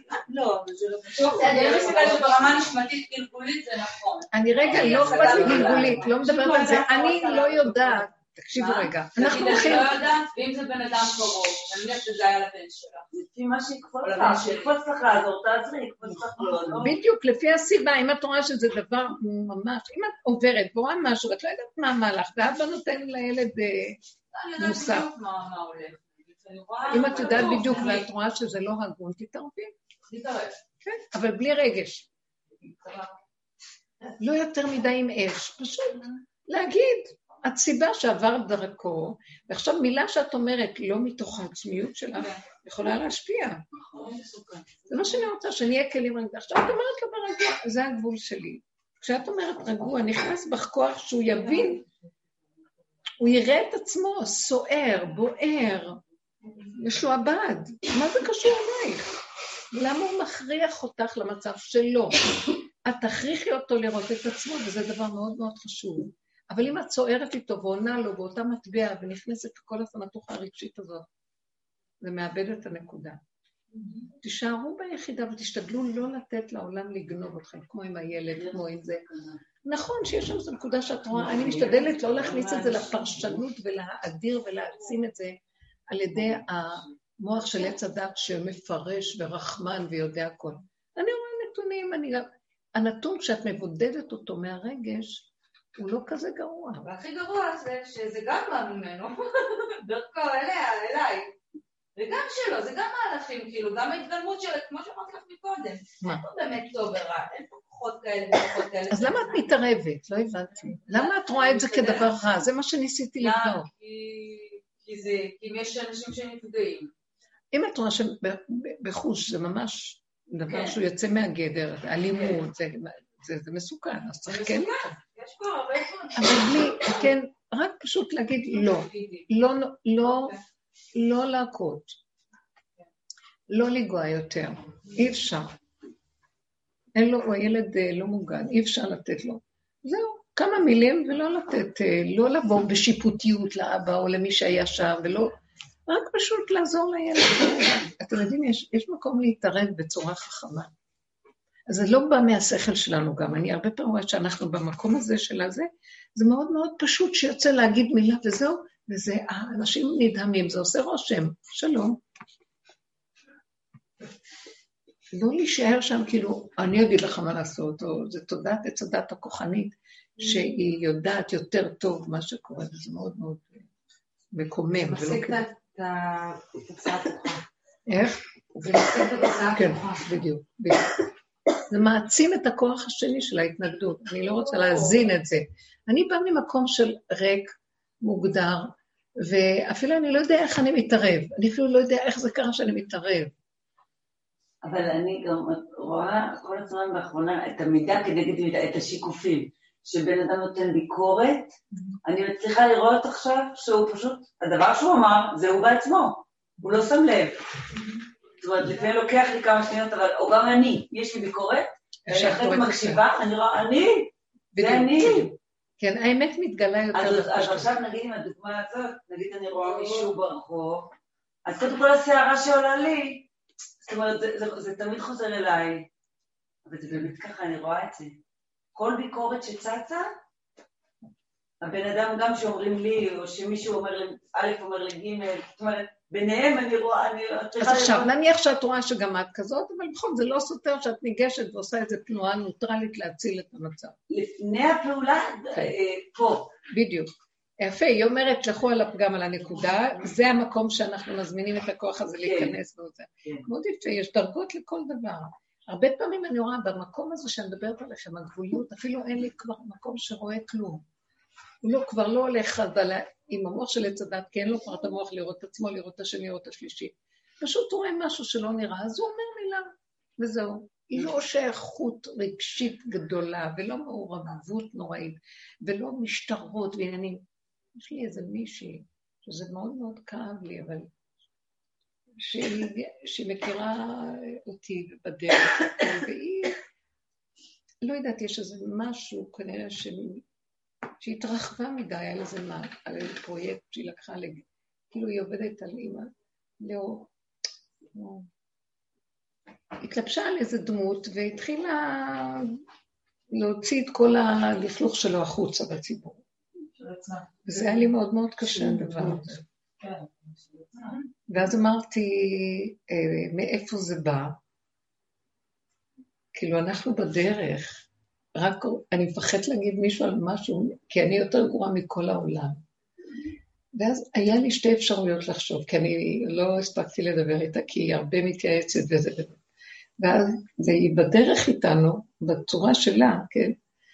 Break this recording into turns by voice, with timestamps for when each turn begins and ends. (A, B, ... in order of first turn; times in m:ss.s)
0:00.2-0:02.5 A
0:01.2-0:13.1 B
0:04.3-0:09.9 C
0:04.8-0:06.0 D
0:13.1-0:16.9 D
0:14.0-0:14.8 B
0:16.0-0:16.8 B
0:16.8-0:24.0 C
0:24.3-0:28.1 B
0:24.6-0:25.1 C
0:26.9-0:29.7 C
0:27.0-0:27.7 D
0:30.0-0:30.6 B
0:30.8-0:32.1 C
0:32.6-0:33.1 B
0:34.2-0:43.6 C
0:42.2-0:42.4 B
0:43.9-0:45.1 B
0:44.9-0:51.8 C
0:53.2-0:56.0 C
0:56.7-0:59.1 C
0:59.7-1:02.2 C
1:02.8-1:11.1 C
1:12.0-1:13.2 C
1:14.2-1:19.0 C
1:19.1-1:19.4 D
1:19.6-1:25.4 C
1:21.3-1:23.1 D
1:25.9-1:36.9 C
1:36.8-1:41.3 B
1:42.0-1:49.5 B
1:48.9-1:53.7 C
1:50.7-1:52.1 B
1:53.2-1:56.9 B
1:57.5-2:04.9 C
2:00.5-2:00.7 B
2:02.1-2:02.4 B
2:04.2-2:07.0 B
2:06.2-2:10.4 C
2:08.5-2:09.3 B
2:10.9-2:12.0 C
2:13.5-2:15.6 C
2:16.9-2:25.3 C
2:25.9-2:30.7 C
2:31.7-2:42.0 C
2:45.1-2:53.7 C
2:54.3-2:55.5 C
2:54.7-2:57.4 E
2:57.9-3:01.0 C
2:58.6-3:00.1 E
3:01.7-3:13.3 C
3:14.6-3:27.4 D
3:28.4-3:35.3 D
3:32.1-3:33.0 C
3:34.5-3:37.7 C
3:36.9-3:40.9 D
3:41.4-3:43.3 D
3:43.8-3:45.9 D
3:46.6-3:48.2 D
3:48.7-3:50.2 D
3:51.6-3:58.1 D
3:57.6-4:04.0 C
4:04.1-4:06.5 D
4:06.7-4:20.8 C
4:12.2-4:12.5 D
4:21.6-4:37.2 C
4:37.7-4:40.9 C
4:42.2-4:46.6 C
4:47.8-4:50.2 C
4:51.0-4:57.1 C
4:57.9-4:58.2 C
4:59.8-5:02.6 C
5:03.3-5:06.2 C
5:06.8-5:07.2 B
5:07.4-5:09.4 C
5:09.8-5:10.9 B
5:11.3-5:14.4 C
5:16.3-5:22.6 C
5:23.7-5:29.4 C
5:30.0-5:33.6 C